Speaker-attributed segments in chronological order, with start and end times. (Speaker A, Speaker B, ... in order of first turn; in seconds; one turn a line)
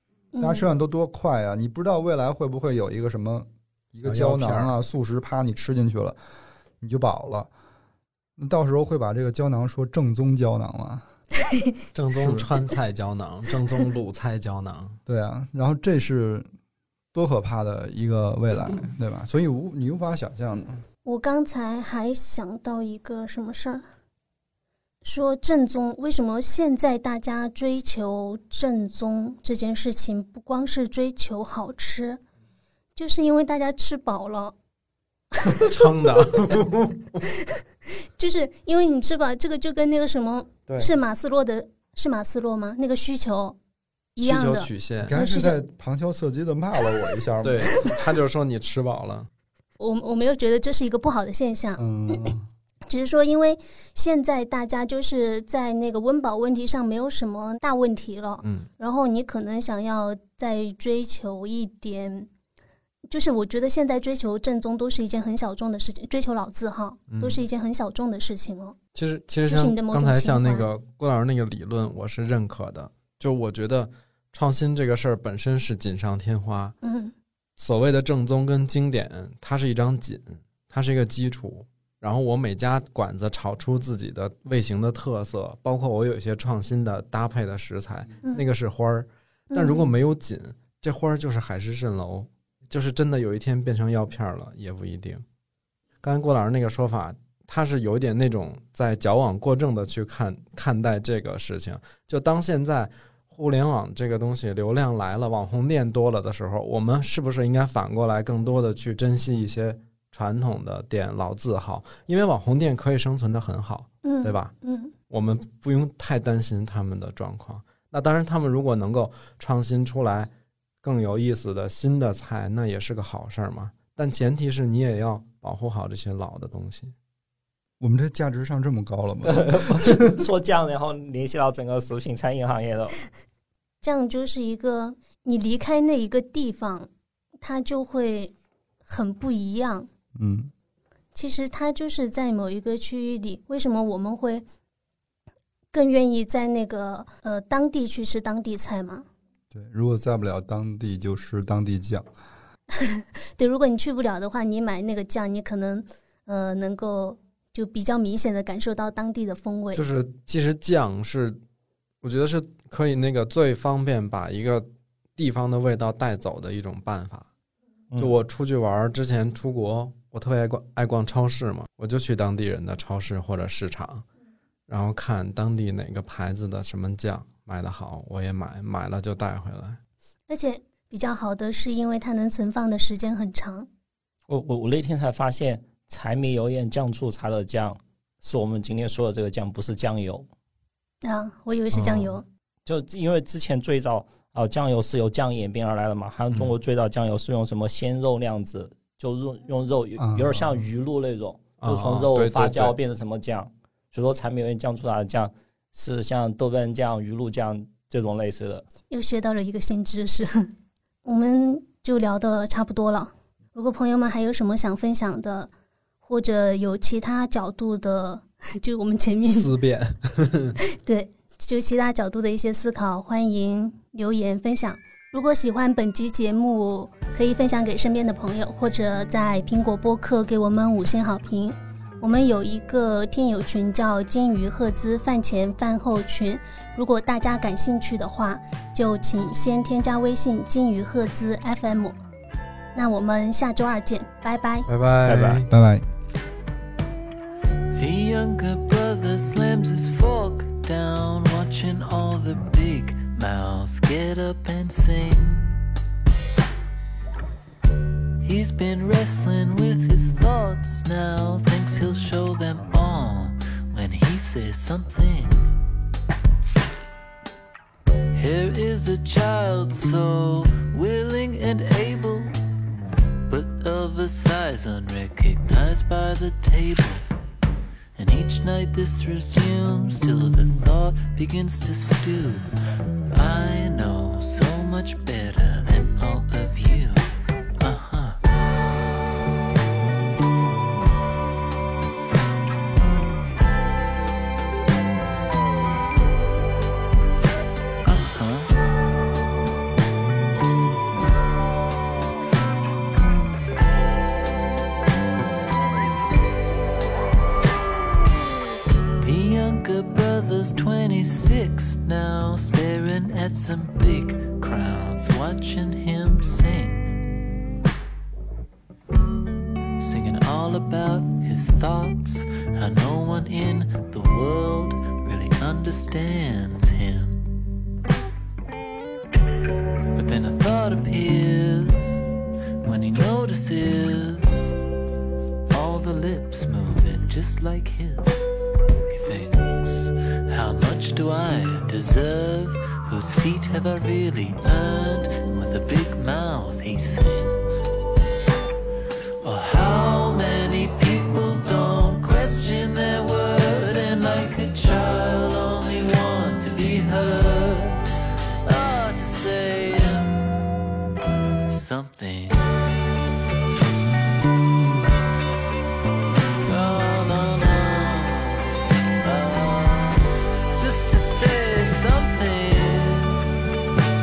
Speaker A: 0.3-0.7
Speaker B: 0.4-6.2
Speaker C: 4.0-4.7
Speaker B: 6.8-7.5
Speaker B: 8.4-11.1
Speaker A: 11.5-11.8
Speaker C: 11.9-15.0
Speaker B: 12.2-12.5
Speaker B: 15.1-16.5
Speaker B: 17.1-20.8
Speaker A: 21.1-23.9
Speaker A: 25.0-32.2
Speaker A: 33.0-34.6
Speaker C: 35.5-37.2
Speaker A: 37.4-43.6
Speaker C: 40.7-40.9
Speaker A: 44.1-45.6
Speaker C: 44.2-45.2
Speaker B: 45.1-47.9
Speaker C: 47.4-49.3
Speaker A: 49.8-52.4
Speaker B: 51.8-52.4
Speaker A: 52.9-62.3
Speaker C: 58.4-58.7
Speaker A: 63.1-68.8
Speaker C: 67.1-67.4
Speaker C: 69.0-76.8
Speaker A: 69.5-70.7
Speaker A: 76.8-77.1
Speaker C: 77.6-95.2
Speaker A: 89.5-89.9
Speaker C: 96.0-114.5
Speaker A: 114.0-114.9
Speaker C: 115.1-120.3
Speaker C: 120.8-126.9
Speaker B: 127.8-130.2
Speaker D: 129.3-133.0
Speaker A: 133.8-136.9
Speaker A: 137.4-139.9
Speaker B: 140.2-140.5
Speaker A: 141.2-144.4
Speaker A: 145.7-149.1
Speaker B: 149.5-152.1
Speaker A: 152.8-159.8
Speaker C: 159.7-161.4
Speaker C: 162.0-167.3
Speaker C: 168.0-174.1
Speaker C: 174.7-179.8
Speaker A: 180.3-183.7
Speaker D: 184.3-190.3
Speaker A: 191.0-192.2
Speaker C: 191.7-192.2
Speaker D: 192.7-208.7
Speaker B: 200.0-200.5
Speaker C: 201.6-202.8
Speaker A: 208.9-210.5
Speaker A: 211.0-215.5
Speaker A: 216.0-219.5
Speaker C: 219.2-220.6
Speaker A: 220.6-242.0
Speaker A: 242.7-244.7
Speaker C: 244.7-245.5
Speaker D: 245.1-245.5
Speaker B: 245.5-245.8
Speaker E: 247.7-255.6
Speaker E: 258.2-265.5
Speaker E: 268.1-272.4
Speaker E: 273.3-277.1
Speaker E: 277.9-282.5
Speaker E: 283.1-288.2
Speaker E: 297.8-298.6
Speaker E: 309.0-316.9
Speaker E: 319.8-327.3
Speaker E: 329.9-332.0
Speaker E: 332.6-334.5
Speaker E: 335.5-338.3
Speaker E: 338.9-347.7
Speaker E: 349.2-357.9
Speaker E: 358.4-360.2
Speaker E: 361.5-362.5
Speaker E: 366.4-373.2